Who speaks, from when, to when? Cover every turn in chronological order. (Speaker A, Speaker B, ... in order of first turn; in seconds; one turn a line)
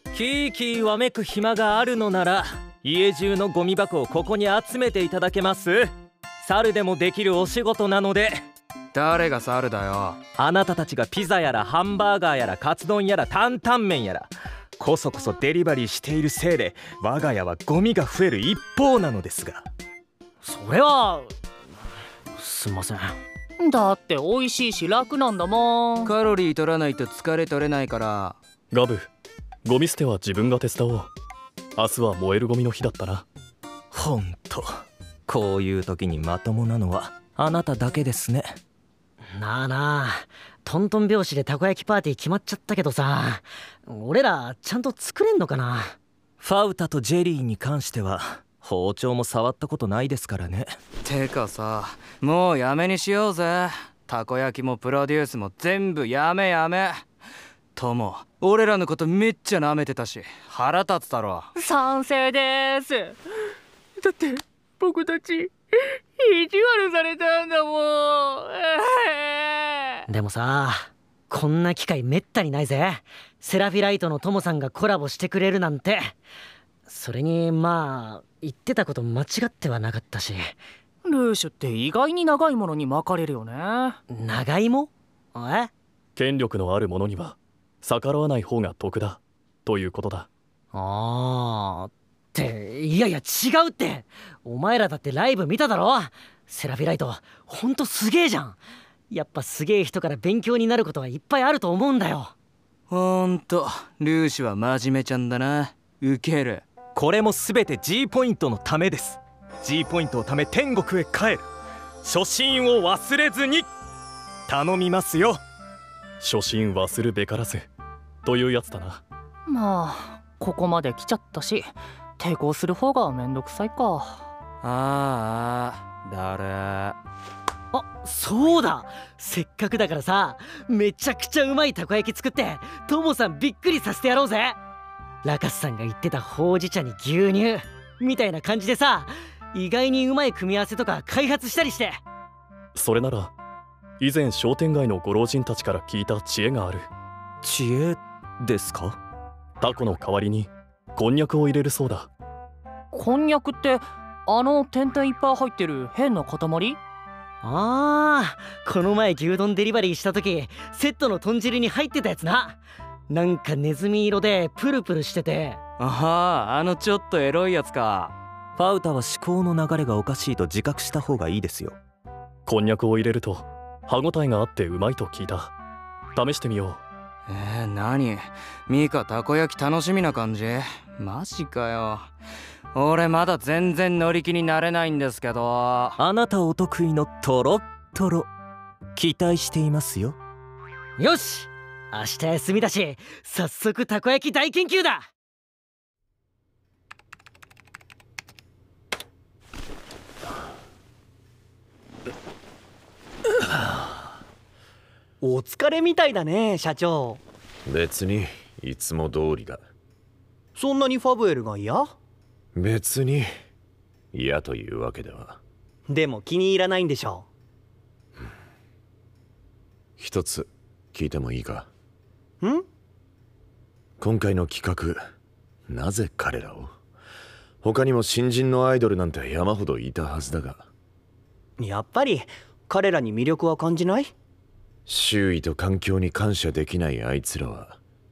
Speaker A: 0.1-8.4
Speaker B: 8.9-10.2
Speaker A: 10.4-19.6
Speaker C: 20.4-21.3
Speaker C: 22.4-23.2
Speaker D: 23.6-26.1
Speaker B: 26.0-28.4
Speaker E: 28.7-29.1
Speaker E: 29.6-31.1
Speaker E: 31.8-33.2
Speaker A: 33.9-34.7
Speaker A: 35.3-38.5
Speaker C: 39.4-45.9
Speaker A: 46.4-50.7
Speaker B: 51.0-57.0
Speaker B: 57.8-61.5
Speaker D: 61.5-63.2
Speaker D: 64.0-65.5
Speaker D: 66.2-70.0
Speaker C: 70.1-76.1
Speaker C: 76.9-80.5
Speaker D: 81.0-84.0
Speaker C: 84.1-85.7
Speaker E: 86.2-90.3
Speaker C: 90.7-98.6
Speaker C: 99.1-102.3
Speaker B: 102.9-106.6
Speaker A: 106.9-111.4
Speaker A: 112.0-113.7
Speaker A: 114.5-115.4
Speaker E: 116.2-117.7
Speaker E: 118.2-119.0
Speaker D: 119.5-124.2
Speaker B: 124.6-127.0
Speaker C: 127.7-134.6
Speaker C: 135.2-142.0
Speaker E: 142.7-143.3
Speaker E: 144.0-146.9
Speaker A: 147.4-149.0
Speaker E: 149.6-152.1
Speaker D: 152.9-156.8
Speaker C: 157.4-162.6
Speaker C: 163.1-165.6
Speaker B: 165.8-168.1
Speaker A: 168.6-171.8
Speaker E: 172.5-175.5
Speaker E: 176.2-176.8
Speaker B: 177.3-182.1
Speaker B: 182.7-186.0
Speaker A: 186.0-188.3
Speaker A: 188.9-190.2
Speaker C: 191.0-195.1
Speaker F: 205.2-207.2
Speaker G: 207.7-209.6
Speaker F: 210.6-211.9
Speaker G: 212.6-213.3
Speaker G: 214.1-215.4
Speaker F: 215.9-217.3
Speaker G: 220.0-221.7
Speaker G: 224.0-225.0
Speaker G: 225.7-226.7
Speaker G: 227.6-230.7
Speaker F: 231.6-234.1
Speaker G: 234.9-237.8